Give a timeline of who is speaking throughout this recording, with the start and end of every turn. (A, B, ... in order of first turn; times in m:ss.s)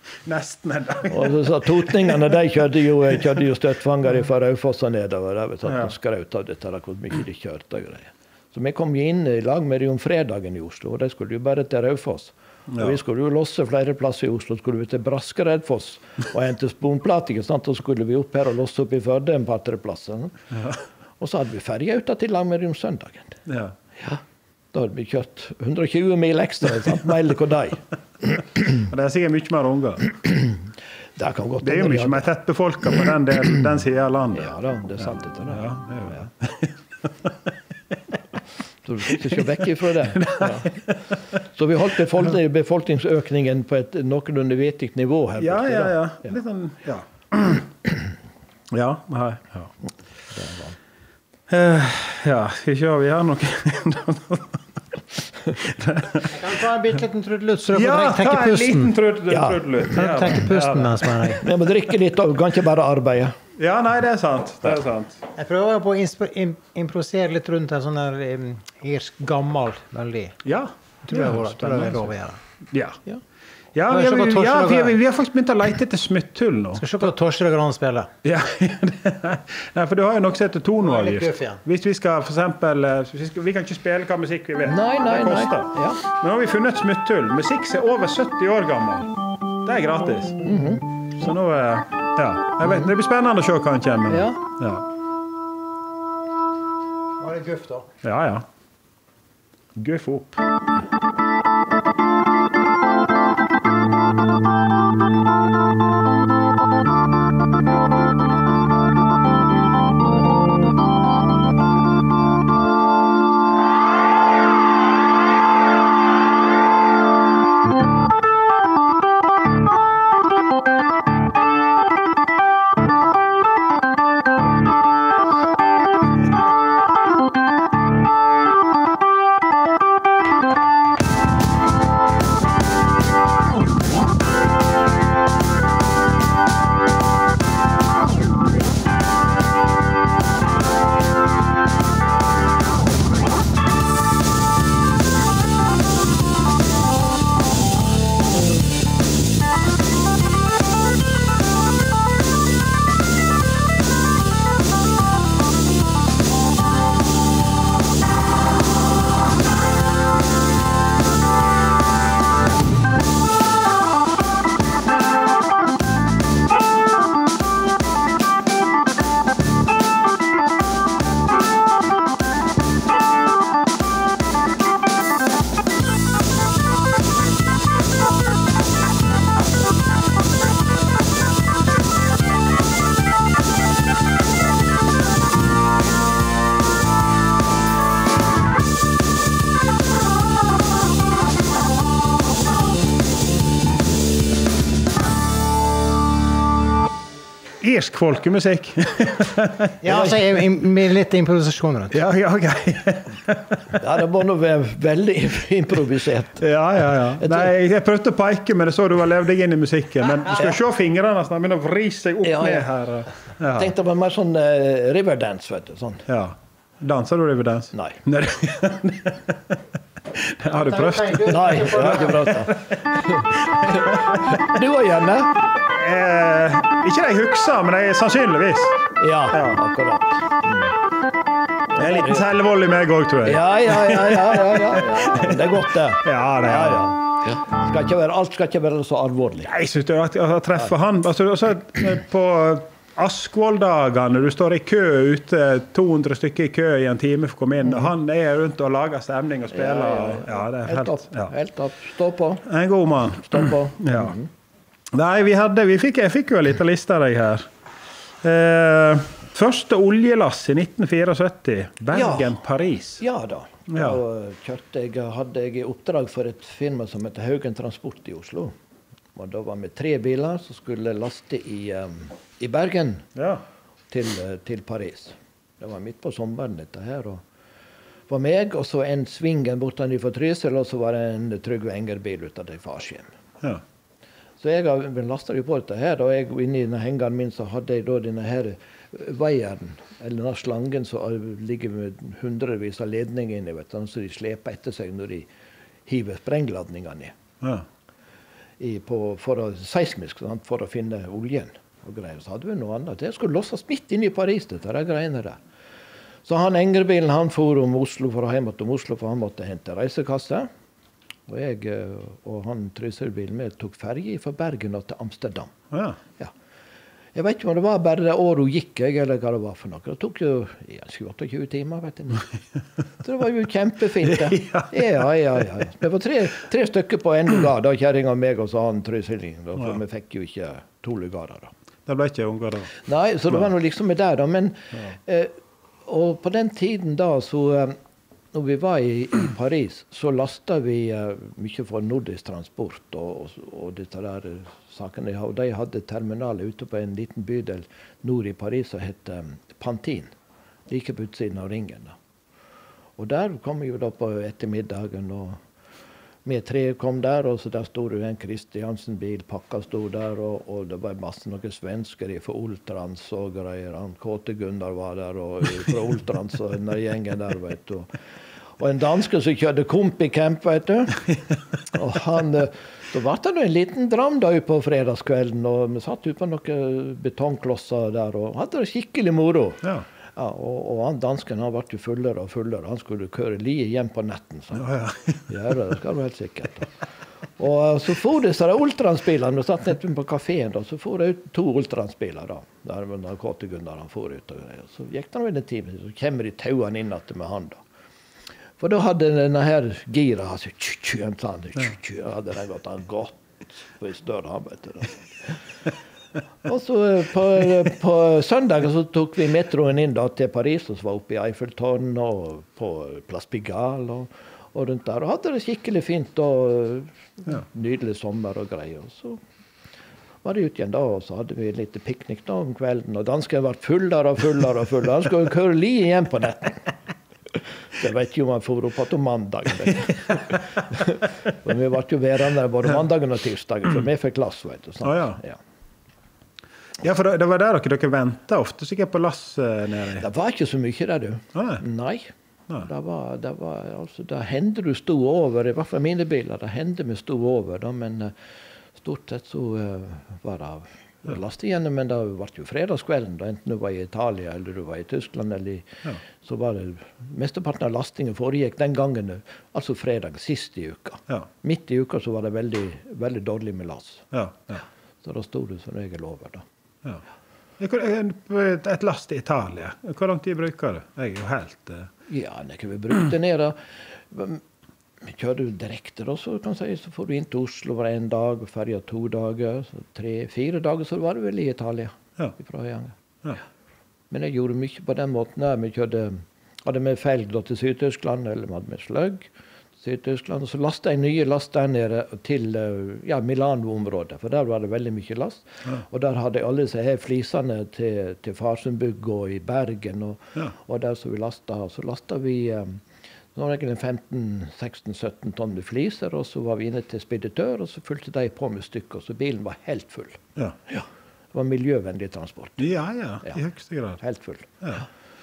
0:00.2-0:02.0 A
0:01.1-0:20.5 B
0:12.7-0:13.0 A
0:20.5-0:20.8 A
0:21.2-0:23.4 B
0:23.4-0:23.7 A
0:24.7-0:28.8 B
0:28.7-0:30.0 A
0:31.2-0:32.3 B
0:31.6-0:34.5 A
0:34.3-0:36.3 B
0:35.5-0:38.0 A
0:38.8-0:46.3 B
0:40.0-0:41.0 A
0:45.4-0:47.9 A
0:48.7-0:49.7 A
0:50.3-0:50.8 B
0:51.5-0:54.6 A
0:55.5-0:56.4 A
0:56.2-0:58.9 C
0:57.7-1:01.4 A
0:59.3-0:59.8 B
0:59.9-1:01.4 C
1:01.4-1:03.4 B
1:03.6-1:05.2 A
1:05.3-1:10.4 C
1:10.4-1:12.1 A
1:11.0-1:12.4 C
1:12.7-1:13.0 A
1:13.7-1:17.1 A
1:13.9-1:15.0 C
1:16.8-1:18.1 C
1:18.2-1:30.5 A
1:20.8-1:21.6 C
1:24.6-1:26.0 B
1:30.4-1:30.8 B
1:31.1-1:34.9 A
1:34.1-1:34.4 B
1:37.2-1:37.9 C
1:38.0-1:38.4 A
1:39.7-1:40.4 A
3:17.6-3:19.7 A
3:19.8-3:22.0 C
3:21.9-3:23.6 A
3:23.7-3:26.4 B
3:26.4-3:33.7 A
3:27.0-3:27.5 B
3:32.2-3:32.7 B
3:33.4-3:36.1 B
3:36.1-3:44.5 A
3:37.7-3:38.0 B
3:40.6-3:42.2 C
3:41.3-3:45.4 B
3:45.7-3:49.6 A
3:49.0-3:50.8 B
3:51.7-3:52.3 B
3:51.8-3:56.9 A
3:53.2-3:59.5 B
3:59.4-4:11.3 A
4:07.6-4:07.9 B
4:09.5-4:12.5 B
4:12.4-4:14.1 A
4:13.2-4:14.3 B
4:14.9-4:17.5 A
4:18.2-4:23.0 A
4:21.9-4:22.4 B
4:23.0-4:28.5 B
4:23.7-4:24.0 A
4:29.1-4:33.1 B
4:33.1-4:33.4 A
4:33.9-4:37.2 B
4:38.1-4:43.1 B
4:44.4-4:55.3 B
4:55.9-4:57.2 B
4:57.4-4:57.6 A
4:58.6-5:05.4 B
5:06.2-5:10.5 B
5:11.3-5:15.5 B
5:15.7-5:16.0 A
5:17.1-5:22.3 B
5:23.0-5:31.5 B
5:24.0-5:24.8 A
5:31.8-5:32.7 A
5:32.8-5:35.3 B
5:35.8-5:37.8 B
5:38.3-5:50.1 B
5:50.7-5:52.0 B
5:53.0-5:55.4 B
5:56.2-6:07.9 B
6:08.6-6:11.1 B
6:11.7-6:19.6 B
6:20.2-6:24.8 B
6:24.5-6:25.3 A
6:25.3-6:26.7 B
6:27.4-6:37.6 B
6:38.6-6:45.4 B
6:46.4-6:59.2 B
7:00.2-7:06.7 B
7:07.8-7:15.4 B
7:14.8-7:15.2 A
7:16.8-7:20.1 A
7:20.0-7:28.1 B
7:21.3-7:21.6 A
7:28.8-7:44.1 B
7:44.1-7:44.6 A
7:45.0-7:46.4 B
7:47.6-7:51.9 A
7:52.1-7:54.4 B
7:55.0-8:03.0 B
8:04.1-8:22.8 B
8:23.3-8:32.7 B
8:32.6-8:34.0 A
8:34.0-8:34.8 B